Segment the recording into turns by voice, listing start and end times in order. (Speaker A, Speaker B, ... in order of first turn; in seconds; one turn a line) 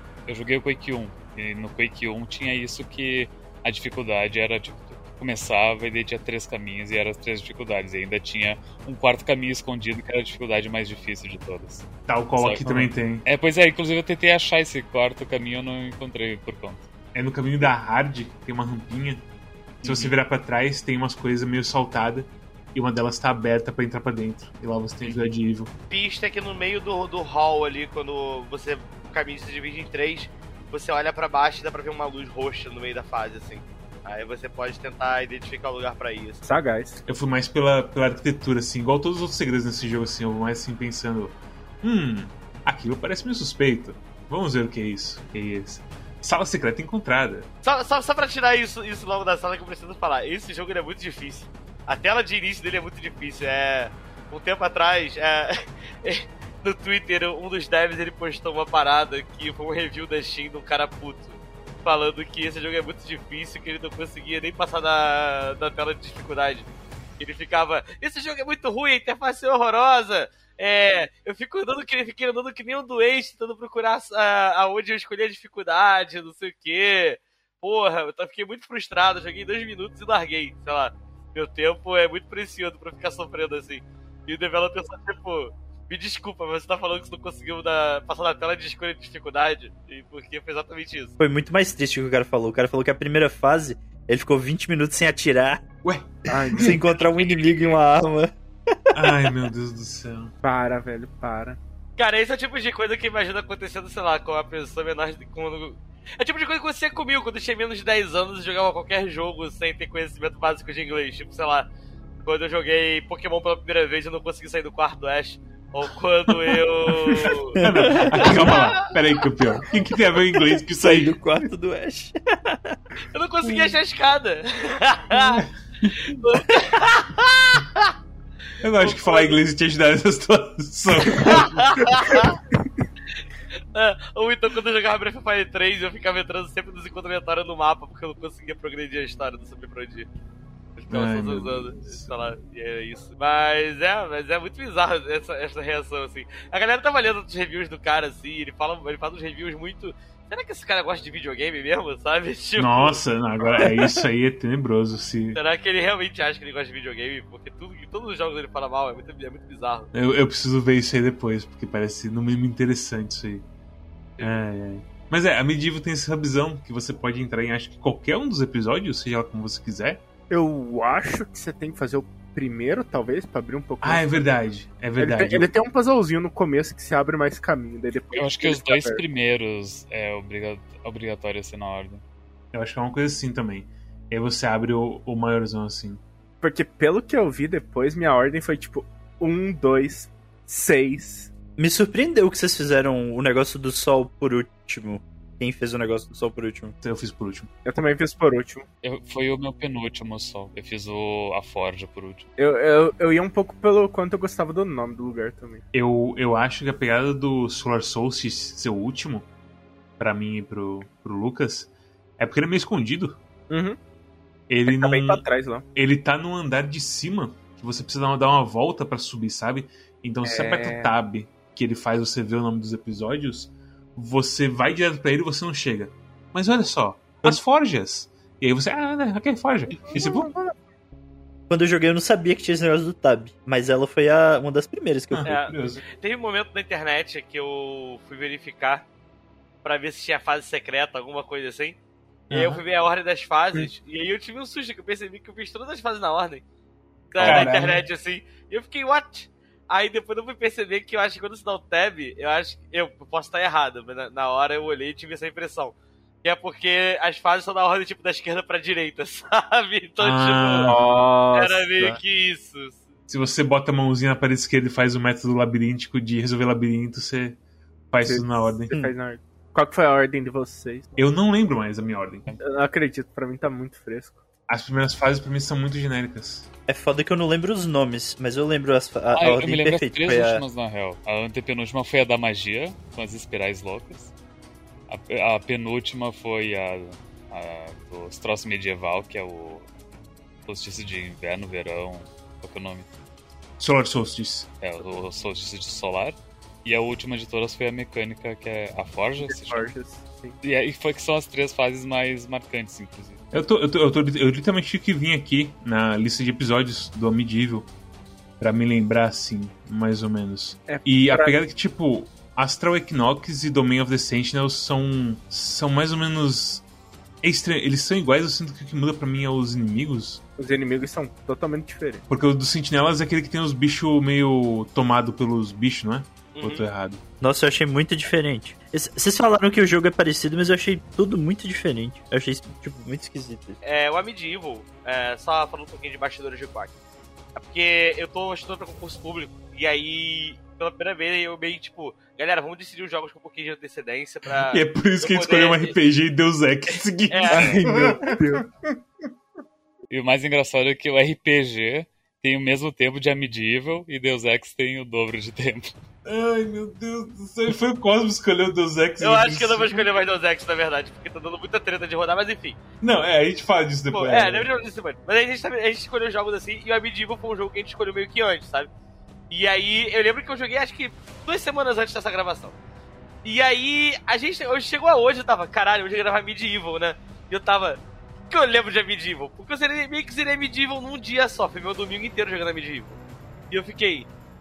Speaker A: 0.3-12.7
Speaker B: 12.1-13.3
Speaker A: 13.2-16.9
Speaker B: 17.1-19.2
Speaker B: 19.8-25.7
Speaker A: 19.8-20.2
Speaker A: 25.0-25.3
Speaker C: 25.9-36.4
Speaker D: 36.4-37.0
Speaker B: 37.1-47.5
Speaker C: 47.6-66.7
Speaker C: 67.2-91.1
Speaker E: 91.2-95.7
Speaker B: 95.8-96.8
Speaker D: 96.3-96.8
Speaker E: 96.5-99.3
Speaker C: 97.3-97.6
Speaker B: 98.9-100.3
Speaker D: 100.4-101.6
Speaker C: 102.0-111.7
Speaker C: 112.2-118.9
Speaker B: 116.3-117.1
Speaker E: 117.5-118.5
Speaker B: 117.6-121.4
Speaker E: 120.4-122.8
Speaker C: 123.1-127.9
Speaker B: 125.1-126.1
Speaker B: 128.6-131.8
Speaker C: 128.8-129.4
Speaker C: 131.2-132.4
Speaker C: 133.7-140.1
Speaker C: 140.8-153.4
Speaker B: 140.9-142.1
Speaker B: 152.6-155.4
Speaker E: 153.6-154.0
Speaker C: 155.3-159.9
Speaker B: 159.9-163.4
Speaker B: 164.2-170.0
Speaker D: 170.3-174.3
Speaker B: 173.8-175.5
Speaker D: 175.0-179.0
Speaker A: 178.1-182.0
Speaker B: 182.5-186.0
Speaker D: 186.4-191.3
Speaker E: 191.6-196.7
Speaker B: 196.8-197.5
Speaker D: 197.7-198.7
Speaker A: 198.8-202.3
Speaker D: 202.4-205.6
Speaker B: 205.7-209.3
Speaker B: 210.0-213.2
Speaker D: 213.5-213.8
Speaker B: 214.5-230.3
Speaker D: 214.7-215.7
Speaker D: 220.2-220.9
Speaker D: 229.8-230.5
Speaker E: 231.5-235.3
Speaker B: 235.1-235.8
Speaker C: 235.2-238.9
Speaker C: 239.6-241.8
Speaker B: 242.3-242.6
Speaker C: 242.3-246.4
Speaker C: 247.1-260.8
Speaker B: 247.2-247.8
Speaker B: 260.0-261.1
Speaker D: 260.7-261.7
Speaker C: 261.3-262.8
Speaker B: 263.1-267.4
Speaker B: 267.9-268.7
Speaker D: 268.0-270.9
Speaker B: 271.0-272.4
Speaker D: 272.4-274.2
Speaker B: 274.5-276.5
Speaker E: 276.7-280.5
Speaker A: 279.1-284.1
Speaker A: 284.9-289.7
Speaker A: 290.5-292.9
Speaker B: 293.6-294.6
Speaker A: 294.6-299.8
Speaker D: 299.2-300.4
Speaker A: 300.4-303.2
Speaker B: 303.3-307.7
Speaker B: 308.4-316.6
Speaker D: 310.7-311.3
Speaker B: 317.2-320.2
Speaker D: 320.4-322.1
Speaker B: 322.1-327.0
Speaker C: 326.4-326.7
Speaker E: 327.2-333.6
Speaker C: 333.6-336.7
Speaker C: 337.4-345.8
Speaker B: 344.5-348.8
Speaker C: 346.7-347.6
Speaker D: 347.3-348.5
Speaker A: 349.9-355.7
Speaker B: 356.1-359.9
Speaker C: 359.0-362.6
Speaker B: 362.8-364.5
Speaker C: 363.9-368.7
Speaker C: 369.3-372.5
Speaker C: 373.2-383.0
Speaker C: 383.5-384.1